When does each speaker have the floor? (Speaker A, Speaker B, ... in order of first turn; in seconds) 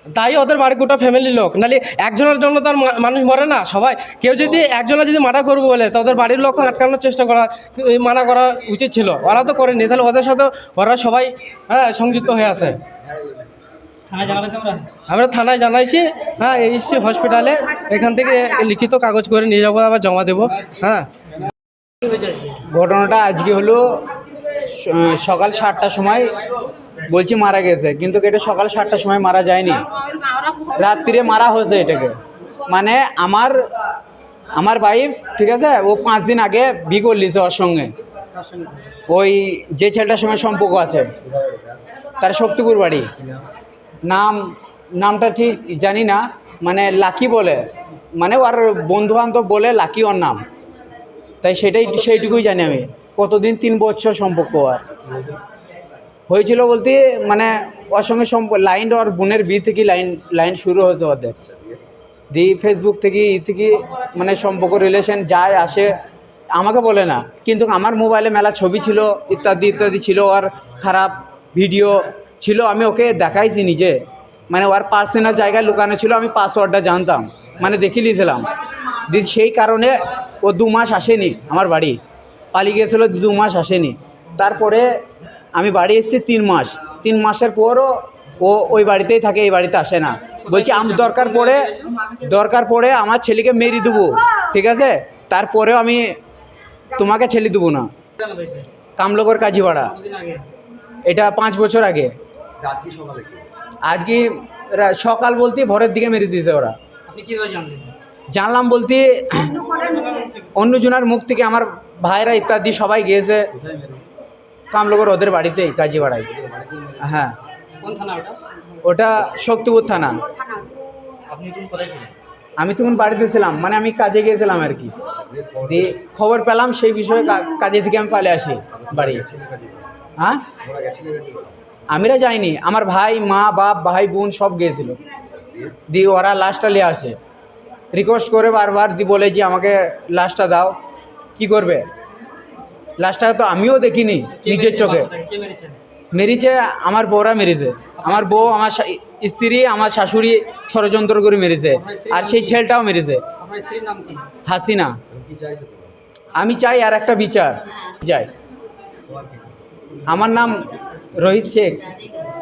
Speaker A: 0.1-12.8, 15.1-21.1
Speaker B: 14.1-14.8, 38.3-38.8, 98.2-98.7, 99.9-100.5, 107.1-107.9, 117.8-118.4, 121.3-122.1, 144.4-145.8, 148.0-148.4, 151.8-152.6, 153.4-154.2
Speaker C: 22.7-24.0, 24.6-26.3, 27.0-29.8, 30.7-32.2, 32.7-33.7, 34.5-37.9, 39.1-41.1, 42.2-43.1, 44.0-50.4, 51.4-54.8, 56.3-61.4, 62.3-65.9, 66.5-74.0, 74.5-78.5, 79.1-82.0, 82.5-84.9, 85.5-96.2, 96.9-97.9, 99.0-99.9, 101.0-102.1, 103.8-106.8, 108.3-109.8, 110.5-113.5, 114.7-116.3, 117.0-117.4, 118.8-120.2, 122.6-124.9, 125.7-129.2, 130.2-130.5, 131.9-135.0, 135.9-137.2, 137.9-140.8, 141.4-141.9, 143.0-145.1, 146.1-153.2, 154.4-155.0, 156.3-158.3, 160.1-161.9
Speaker D: 102.8-103.4, 113.6-114.0, 116.4-117.0, 125.3-125.8, 128.8-129.9, 130.6-131.6, 155.3-155.9